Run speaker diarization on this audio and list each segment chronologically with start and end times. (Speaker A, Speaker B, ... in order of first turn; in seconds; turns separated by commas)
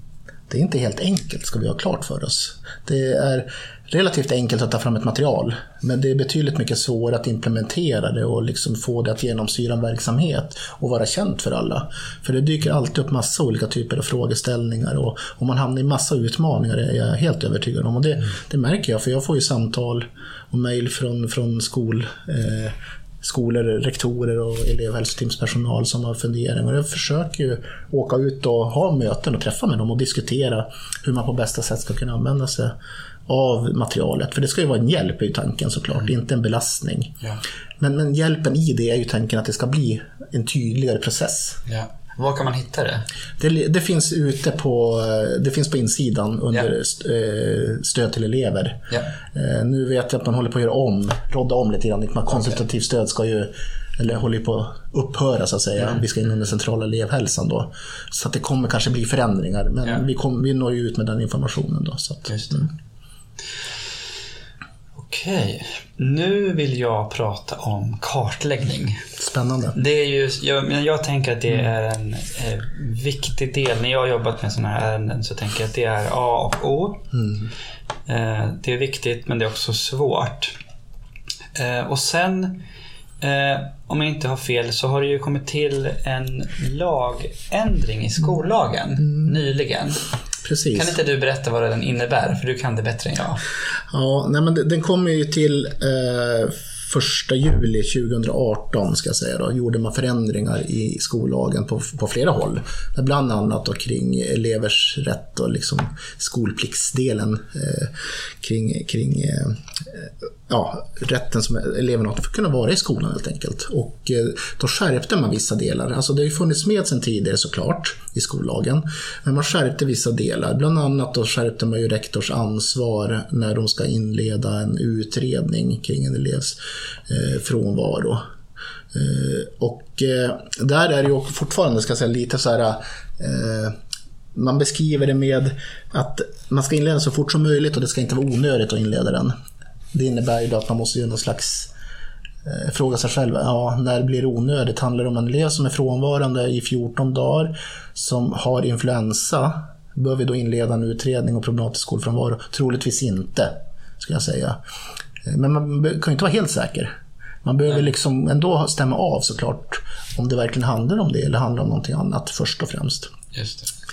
Speaker A: 0.5-32.7, Speaker A: 33.3-37.2, Speaker A: 37.8-41.6, Speaker B: 41.7-43.0, Speaker A: 43.4-62.7, Speaker B: 62.3-62.5, Speaker B: 65.0-69.0, Speaker A: 69.2-69.8, Speaker B: 69.7-77.0, Speaker A: 77.1-77.5, Speaker B: 78.1-80.5, Speaker B: 81.5-82.6, Speaker B: 83.2-90.0, Speaker A: 90.5-91.0, Speaker B: 90.7-93.4, Speaker A: 93.9-126.6, Speaker A: 127.1-128.2, Speaker A: 128.9-133.8, Speaker A: 134.3-139.3, Speaker A: 139.9-141.7, Speaker A: 142.4-154.6, Speaker A: 155.2-156.9, Speaker A: 157.4-163.1, Speaker B: 163.3-163.7